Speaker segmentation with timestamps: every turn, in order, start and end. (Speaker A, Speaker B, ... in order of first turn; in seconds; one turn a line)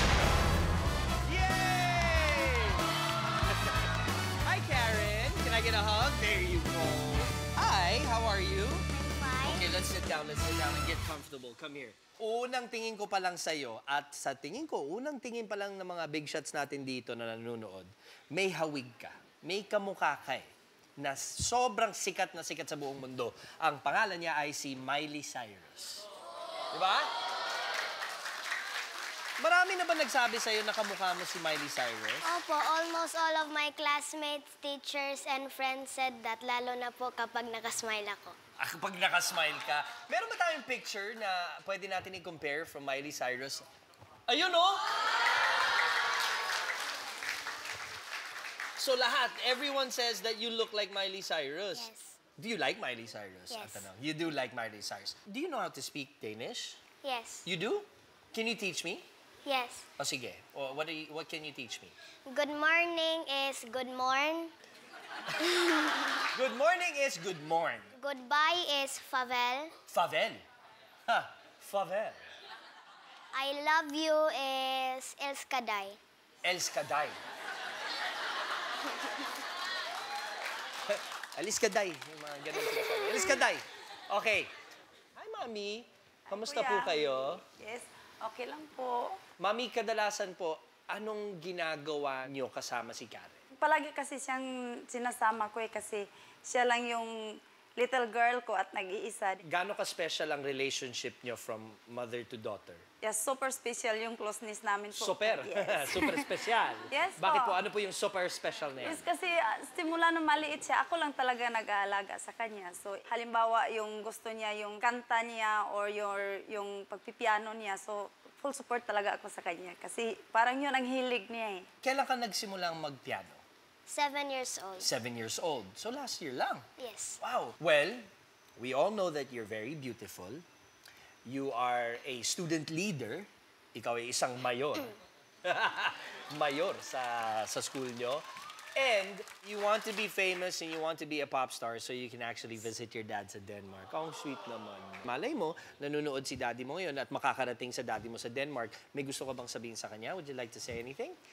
Speaker A: 1.2-2.9
Speaker A: 3.6-3.8
Speaker A: 4.4-8.9
Speaker B: 8.9-9.7
Speaker A: 9.4-20.5
Speaker A: 21.0-26.0
Speaker A: 26.7-27.1
Speaker A: 29.4-32.2
Speaker B: 32.2-38.4
Speaker A: 38.6-43.6
Speaker A: 44.3-44.9
Speaker A: 48.8-56.8
Speaker B: 51.7-52.2
Speaker B: 53.5-53.9
Speaker B: 57.0-57.5
Speaker A: 57.4-59.0
Speaker B: 59.4-59.9
Speaker A: 60.0-61.9
Speaker B: 62.3-64.5
Speaker B: 65.4-66.2
Speaker A: 66.3-67.9
Speaker B: 68.0-69.8
Speaker A: 69.9-70.4
Speaker A: 71.1-72.2
Speaker B: 73.3-76.0
Speaker A: 76.4-77.2
Speaker A: 80.9-84.5
Speaker A: 85.2-87.4
Speaker C: 86.3-89.2
Speaker A: 89.4-93.4
Speaker C: 93.6-99.4
Speaker A: 99.4-102.8
Speaker C: 103.0-106.4
Speaker A: 104.9-109.1
Speaker C: 106.9-107.6
Speaker C: 108.8-121.7
Speaker A: 121.8-123.4
Speaker B: 123.9-124.9
Speaker A: 124.8-126.7
Speaker B: 126.8-127.2
Speaker A: 127.2-130.4
Speaker A: 131.2-151.2